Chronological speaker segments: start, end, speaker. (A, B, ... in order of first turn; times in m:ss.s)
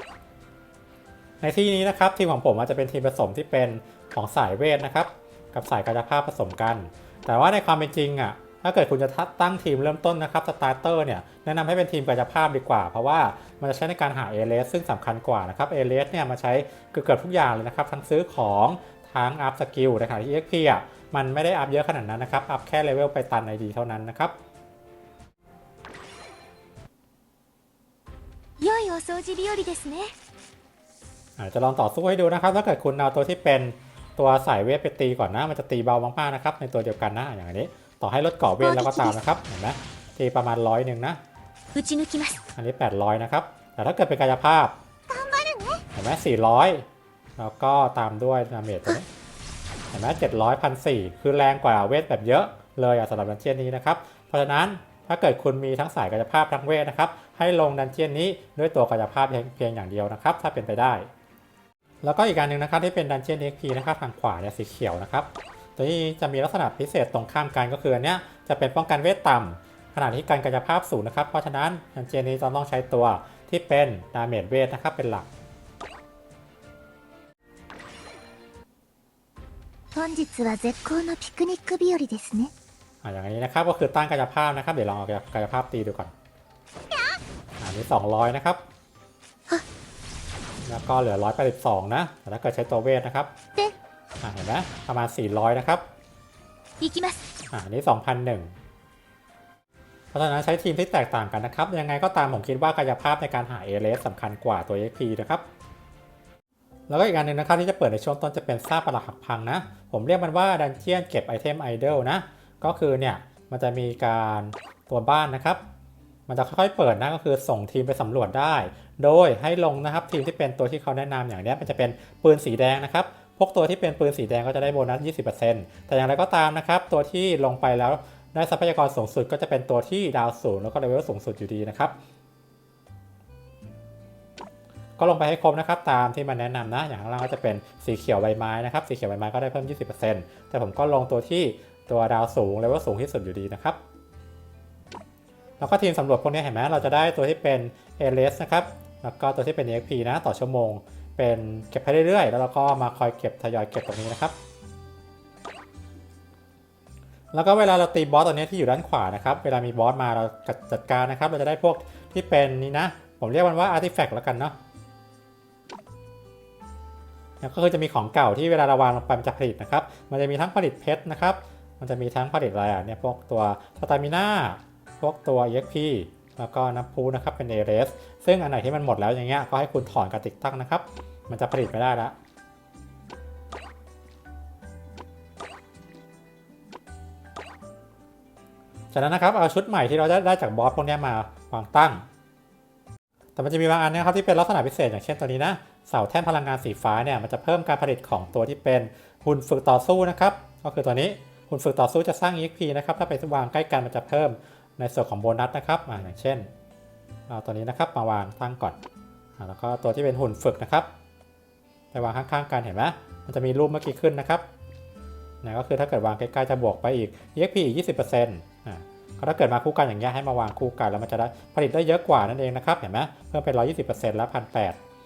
0:01.4-0:24.3 A
0:28.6-0:30.1 B
0:31.4-0:41.2 A
0:38.6-0:39.2 B
0:41.7-0:42.4 B
0:42.6-0:44.8 A
0:45.1-0:45.8 B
0:45.9-0:46.8 A
0:47.4-0:49.1 A
0:49.9-1:01.1 A
1:02.0-1:15.3 A
1:19.9-1:22.5 B
1:23.0-1:26.1 A
1:27.6-1:28.6 A
1:30.6-1:33.3 A
1:34.2-1:35.8 A
1:36.8-1:37.2 B
1:37.5-1:38.5 A
1:40.1-1:45.4 A
1:46.9-1:55.6 A
1:56.3-2:12.0 A
2:15.0-2:23.8 A
2:25.6-2:34.3 A
2:37.3-2:44.6 A
2:47.4-3:02.1 A
3:08.9-3:12.0 A
3:13.4-3:26.5 A
3:27.3-3:28.8 A
3:29.4-3:30.9 A
3:31.9-3:34.4 A
3:35.4-3:44.8 A